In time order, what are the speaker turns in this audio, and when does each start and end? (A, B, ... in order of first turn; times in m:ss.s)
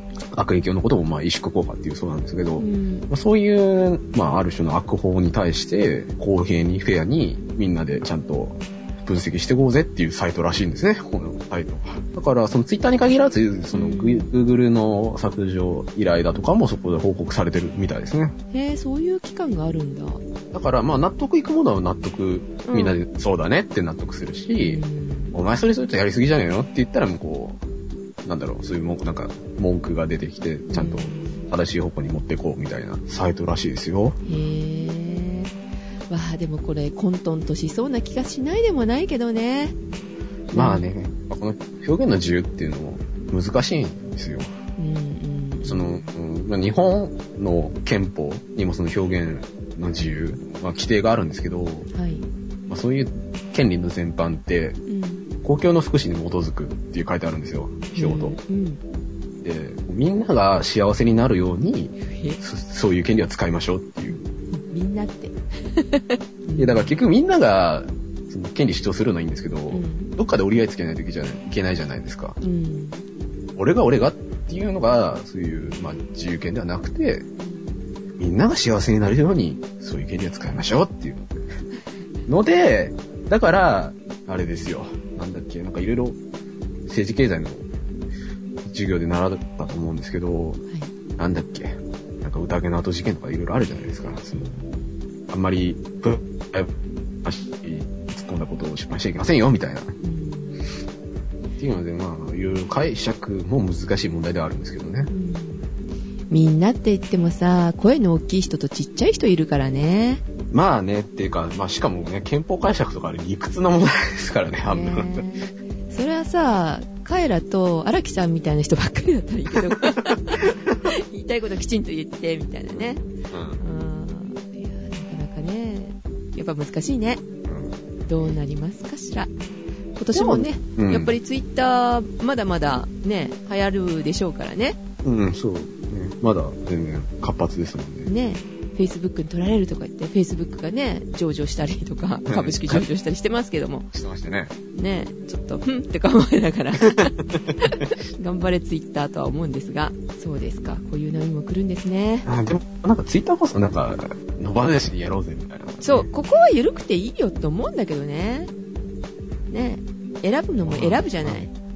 0:00.3-0:18.4 A
0:02.6-0:03.1 B
0:13.7-0:14.3 B
0:18.5-0:20.2 B
0:20.5-0:27.6 A
0:22.6-0:23.0 B
0:24.6-0:25.4 B
0:28.2-0:34.2 A
0:30.7-0:31.4 B
0:34.2-0:35.5 B
0:36.1-0:39.8 B
0:40.5-0:44.5 A
0:40.5-0:40.9 B
0:44.8-0:46.1 B
0:45.6-0:51.9 A
0:51.9-0:52.2 B
0:52.7-0:54.8 A
0:54.9-0:55.3 B
0:55.4-0:58.4 A
0:57.9-0:58.8 B
0:59.4-1:04.2 A
1:02.0-1:02.4 B
1:04.1-1:06.9 B
1:06.6-1:12.4 A
1:09.7-1:10.1 B
1:12.4-1:13.0 B
1:13.6-1:17.3 A
1:17.4-1:17.7 B
1:18.2-1:21.5 A
1:22.2-1:26.2 A
1:26.9-1:27.6 A
1:28.6-1:30.6 A
1:31.2-1:34.6 A
1:34.3-1:34.8 B
1:35.3-1:36.7 A
1:37.2-1:39.9 A
1:40.0-1:40.7 B
1:41.6-1:45.1 A
1:45.1-1:45.7 B
1:46.3-1:50.2 B
1:50.5-1:55.2 A
1:54.6-2:03.0 B
2:02.7-2:03.6 A
2:03.6-2:07.2 B
2:07.5-2:07.8 A
2:08.1-2:09.3 B
2:10.0-2:14.8 B
2:10.1-2:11.1 A
2:15.0-2:18.1 A
2:18.0-2:23.9 B
2:22.3-2:22.8 A
2:23.9-2:24.5 A
2:24.7-2:32.3 B
2:26.9-2:27.8 A
2:32.2-2:36.1 A
2:35.8-2:38.5 B
2:39.5-2:41.5 B
2:40.6-2:41.5 A